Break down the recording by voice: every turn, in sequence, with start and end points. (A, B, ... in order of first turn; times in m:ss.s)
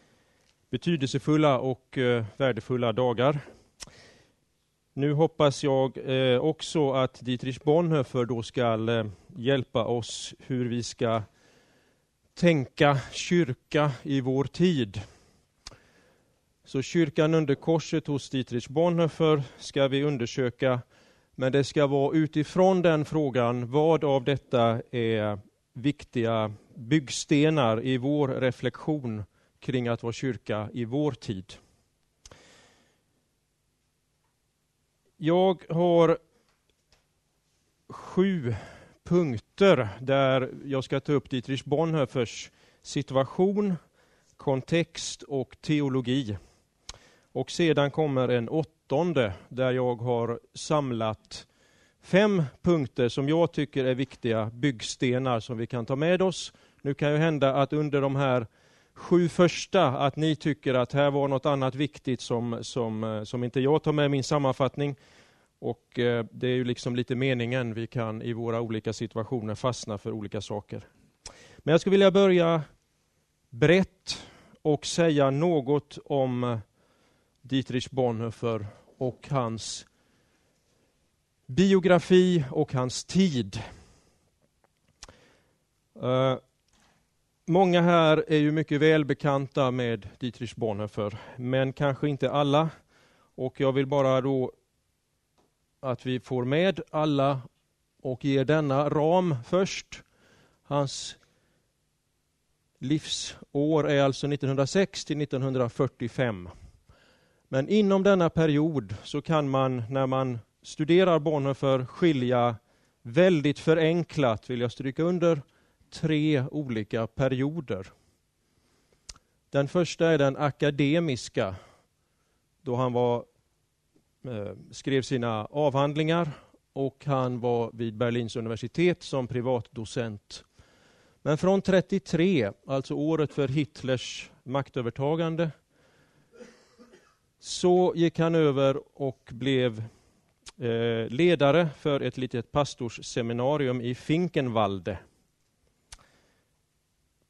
0:00.7-0:03.4 A
0:04.9-0:11.3 A
0:12.4-0:15.0 A
0:16.6-0:20.8 A
0:21.4-0:31.6 A
0:35.2-0:36.2 A
0:37.9-0:43.8 A
0:44.4-0:46.4 A
0:47.3-0:51.5 A
0:52.0-1:05.0 A
1:05.6-1:10.9 A
1:11.6-1:12.6 A
1:13.5-1:16.6 A
1:17.4-1:19.8 A
1:21.5-1:23.6 A
1:25.9-1:26.4 A
1:27.5-1:32.7 A
1:33.4-1:34.5 A
1:35.8-1:37.4 A
1:38.0-1:40.0 A
1:40.6-1:41.2 A
1:42.8-1:46.5 A
1:47.5-1:57.9 A
1:59.5-2:01.5 A
2:02.6-2:03.2 A
2:04.2-2:10.4 A
2:11.2-2:15.5 A
2:17.4-2:19.9 A
2:20.6-2:25.0 A